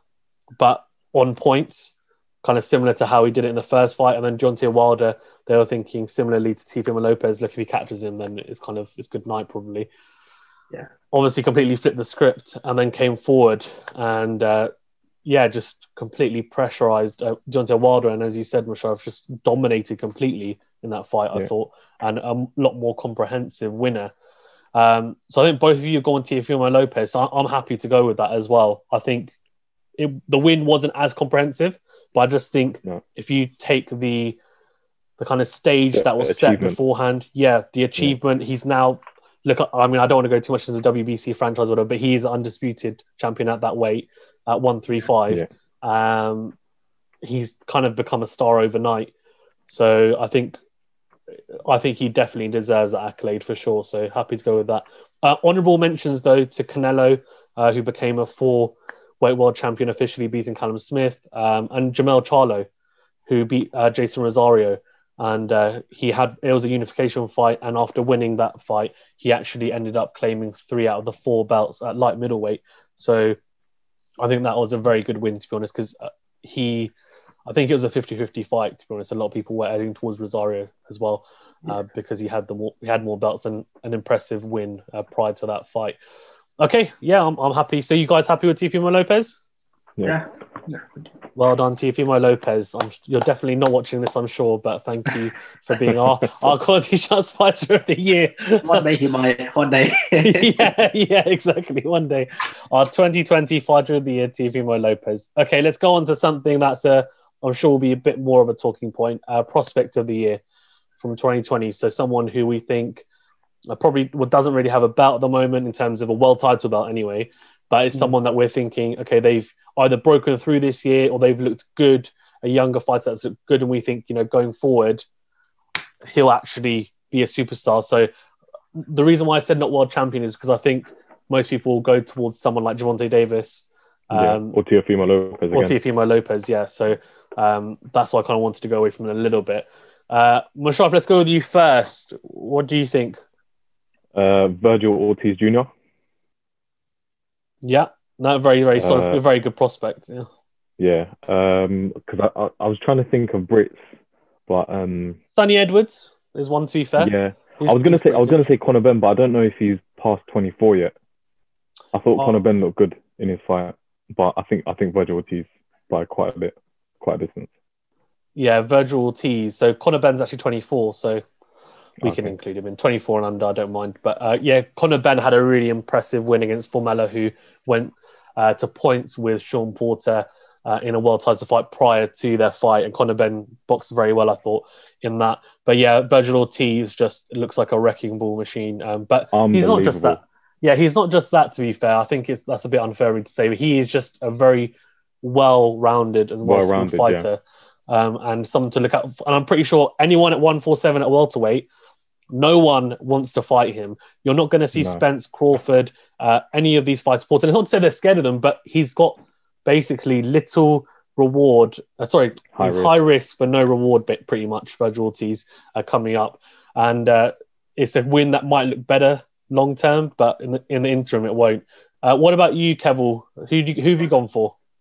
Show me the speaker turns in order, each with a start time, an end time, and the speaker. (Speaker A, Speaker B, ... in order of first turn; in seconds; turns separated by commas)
Speaker A: 0.6-1.9, Speaker A: 2.4-9.9, Speaker A: 11.1-14.7, Speaker A: 15.2-24.1, Speaker A: 24.8-29.3, Speaker A: 30.0-34.4, Speaker A: 35.2-46.5, Speaker B: 35.9-36.8, Speaker A: 47.2-49.1, Speaker A: 49.7-50.6, Speaker A: 51.6-62.7, Speaker A: 63.3-73.4, Speaker A: 74.2-76.9, Speaker A: 77.5-86.0, Speaker A: 86.6-89.4, Speaker C: 90.0-91.0, Speaker A: 91.4-98.9, Speaker B: 95.9-96.2, Speaker C: 98.6-100.7, Speaker A: 100.2-110.4, Speaker A: 111.0-113.0, Speaker A: 113.7-125.1, Speaker A: 126.0-128.1, Speaker A: 128.8-134.6, Speaker B: 134.1-135.8, Speaker A: 135.5-143.2, Speaker B: 144.1-145.7, Speaker A: 147.6-150.3, Speaker B: 148.8-149.2, Speaker B: 150.8-153.8, Speaker B: 154.5-155.2, Speaker A: 155.4-158.5, Speaker B: 157.0-160.9, Speaker B: 161.9-167.5, Speaker A: 168.4-171.2, Speaker B: 172.0-172.3, Speaker A: 172.0-201.7, Speaker B: 189.3-190.2, Speaker B: 196.4-197.3, Speaker A: 202.3-224.6, Speaker B: 204.8-205.0, Speaker B: 212.5-213.0